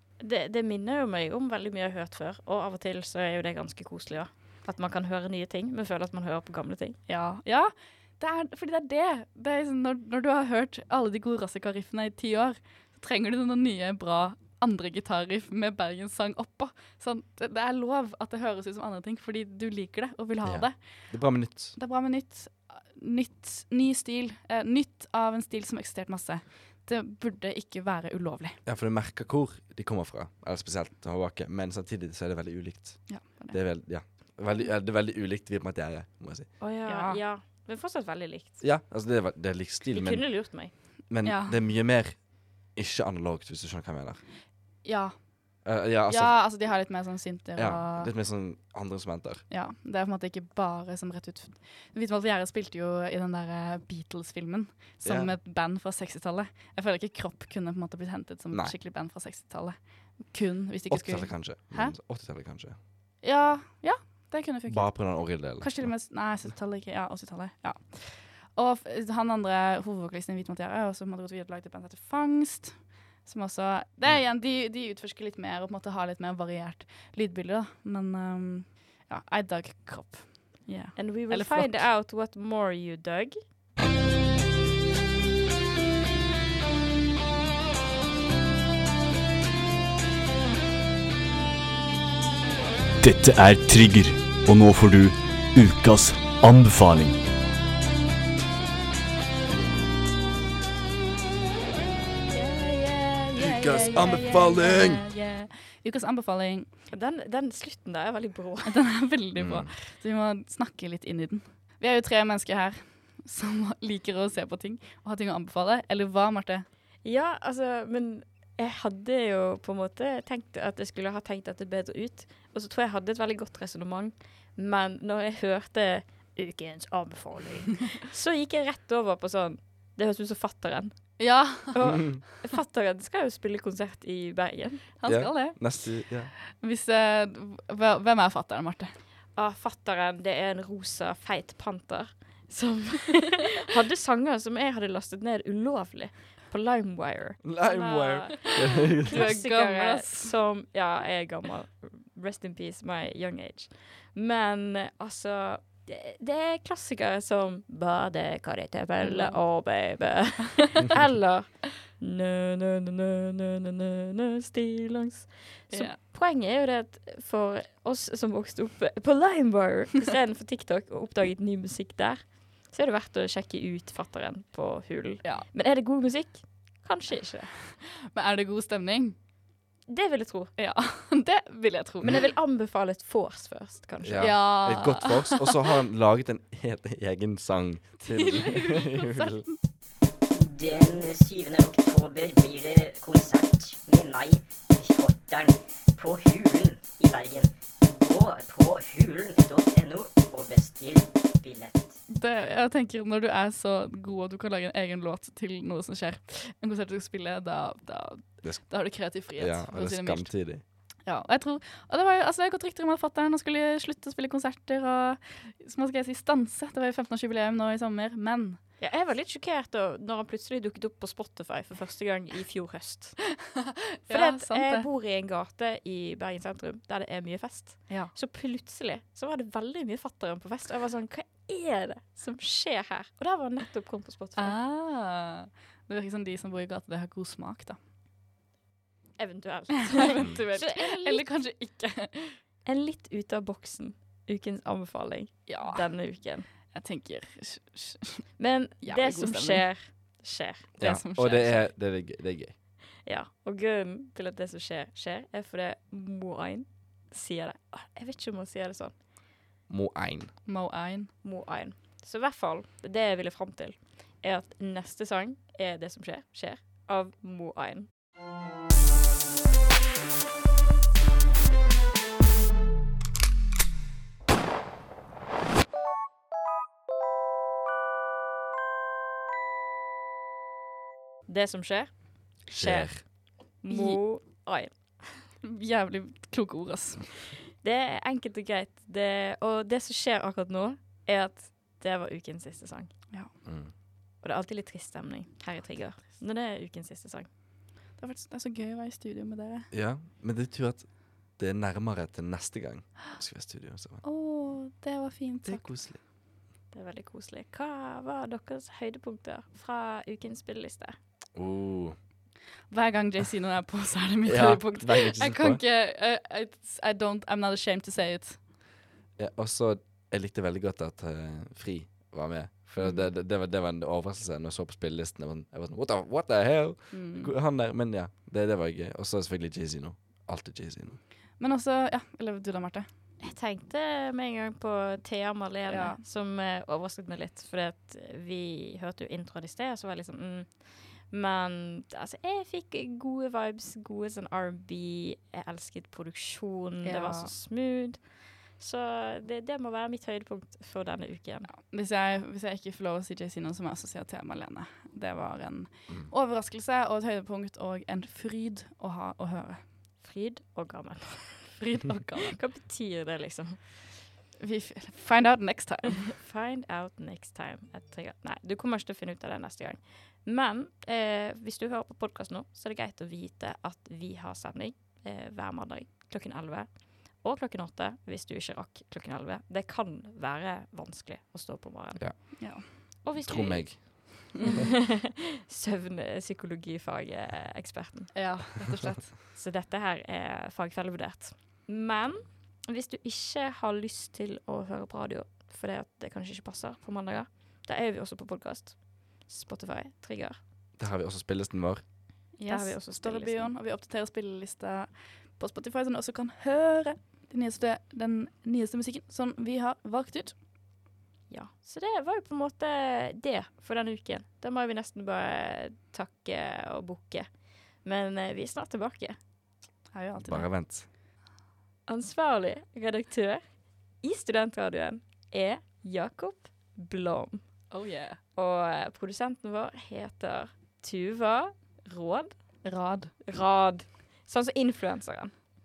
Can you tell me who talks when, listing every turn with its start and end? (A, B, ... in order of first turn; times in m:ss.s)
0:00.2-0:07.0 A
0:07.1-0:28.6 B
0:20.4-0:21.8 C
0:28.6-0:36.5 C
0:33.1-0:33.6 B
0:36.6-0:38.6 A
0:36.8-0:37.2 B
0:38.6-0:40.4 C
0:39.9-0:40.7 A
0:41.1-0:44.2 C
0:41.2-0:41.6 B
0:44.8-0:45.1 B
0:45.6-0:46.4 C
0:46.1-0:48.1 B
0:47.6-0:49.4 C
0:49.5-1:01.9 B
0:55.0-0:55.3 C
1:00.9-1:02.8 C
1:03.2-1:21.8 B
1:04.7-1:05.9 C
1:20.9-1:23.4 A
1:33.0-1:37.2 D
1:42.3-1:44.9 A
1:43.4-1:45.0 C
1:43.9-1:46.7 B
1:46.9-1:48.8 A
1:48.6-1:56.6 B
1:49.4-1:49.7 C
1:57.0-2:14.8 A
2:11.2-2:12.1 B
2:15.0-2:15.9 B
2:15.0-2:16.3 C
2:16.5-2:18.9 B
2:19.3-2:57.6 A
2:27.4-2:29.3 C
2:29.0-2:30.3 B
2:39.0-2:39.4 B
2:45.7-2:46.0 B
2:58.1-2:59.2 B
2:59.9-3:00.5 A
3:00.6-3:02.2 B
3:02.0-3:04.4 A
3:04.0-3:09.4 C
3:04.2-3:05.5 B
3:08.0-3:09.5 B
3:10.3-3:22.0 E
3:22.1-3:30.4 B
3:29.3-3:30.6 C
3:31.0-3:38.6 B
3:38.8-3:43.2 A
3:43.5-3:44.9 B
3:44.1-3:54.6 A
3:47.9-3:48.1 B
3:54.4-3:57.8 B
3:59.2-4:01.3 A
3:59.9-4:02.4 B
4:02.6-4:06.5 A
4:05.5-4:05.9 B
4:06.7-4:08.3 B
4:08.4-4:10.7 A
4:08.8-4:09.6 B
4:10.8-4:11.6 B
4:10.8-4:12.5 C
4:13.0-4:19.0 A
4:19.7-4:20.3 C
4:20.4-4:21.1 B
4:21.2-4:27.9 A
4:41.3-4:45.2 A
4:42.5-4:43.0 C
4:43.7-4:44.0 B
4:45.4-4:47.1 B
4:47.6-4:52.9 A
4:53.4-4:53.7 C
4:54.2-4:57.3 A
4:58.0-4:59.7 B
4:59.7-5:04.0 C
5:04.0-5:05.7 B
5:05.4-5:06.0 C
5:06.7-5:11.0 A
5:11.4-5:12.0 C
5:12.7-5:18.4 B
5:14.2-5:15.6 C
5:19.2-5:31.0 C
5:22.8-5:23.1 B
5:26.9-5:27.3 B
5:31.4-5:32.9 B
5:33.2-5:51.5 A
5:35.7-5:36.0 B
5:46.8-5:47.3 B
5:51.5-5:59.6 B
6:00.0-6:01.6 A
6:01.6-6:02.4 B
6:02.2-6:03.6 A
6:04.4-6:06.1 B
6:06.1-6:22.4 A
6:22.0-6:24.1 C
6:22.4-6:22.7 B
6:23.0-6:28.1 A
6:28.1-6:29.2 B
6:29.3-6:40.4 A
6:40.8-6:41.8 C
6:42.4-6:50.3 B
6:42.4-6:43.5 A
6:51.3-6:57.3 A
6:57.8-6:59.2 A
6:59.9-7:00.5 B
7:00.2-7:00.9 C
7:01.9-7:03.4 A
7:04.0-7:07.4 A
7:07.7-7:08.2 B
7:08.4-7:12.4 A
7:12.6-7:13.1 B
7:13.2-7:15.3 A